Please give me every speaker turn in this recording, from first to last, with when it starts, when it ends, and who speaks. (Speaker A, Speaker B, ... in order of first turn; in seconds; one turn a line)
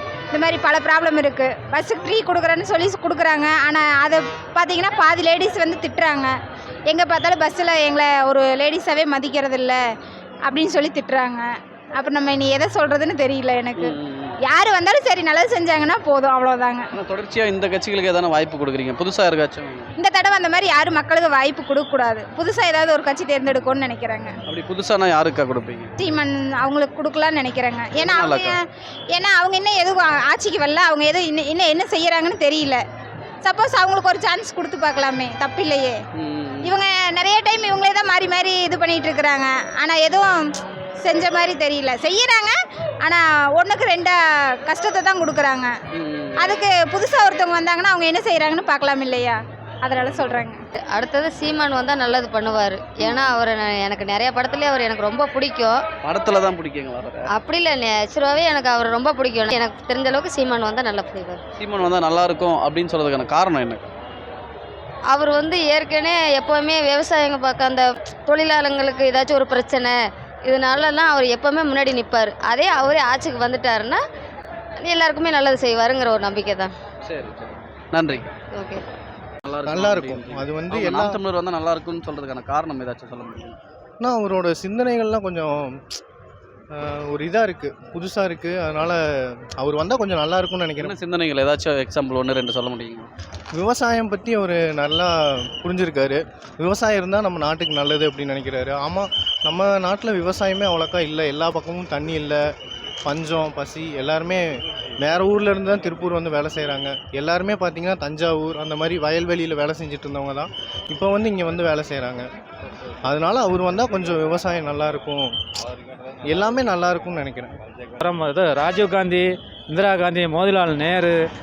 Speaker A: 0.5-6.3
Speaker A: 6.9-9.8
Speaker A: 10.5-11.4
Speaker A: 12.0-13.7
Speaker B: 13.8-14.4
Speaker A: 14.5-16.8
Speaker B: 16.9-19.9
Speaker A: 20.1-24.2
Speaker B: 24.5-26.1
Speaker A: 26.2-28.2
Speaker B: 27.9-28.6
Speaker A: 29.1-32.8
Speaker A: 33.4-35.9
Speaker B: 36.1-36.8
Speaker A: 36.7-40.4
Speaker A: 41.0-42.5
Speaker A: 43.0-44.1
Speaker A: 44.7-45.7
Speaker B: 45.9-46.6
Speaker A: 46.6-49.3
Speaker B: 49.9-50.5
Speaker C: 50.9-55.7
Speaker B: 53.0-53.4
Speaker B: 56.0-57.3
Speaker C: 57.3-61.4
Speaker B: 61.6-63.8
Speaker C: 65.1-69.9
Speaker C: 70.5-74.0
Speaker C: 74.8-76.7
Speaker B: 77.0-78.3
Speaker C: 78.5-78.8
Speaker B: 79.4-83.5
Speaker D: 79.7-81.2
Speaker D: 84.0-85.8
Speaker D: 86.7-90.9
Speaker B: 90.8-93.1
Speaker D: 93.5-102.4
Speaker D: 103.0-112.2
Speaker D: 113.0-115.3
Speaker D: 116.3-117.5
Speaker E: 118.0-121.1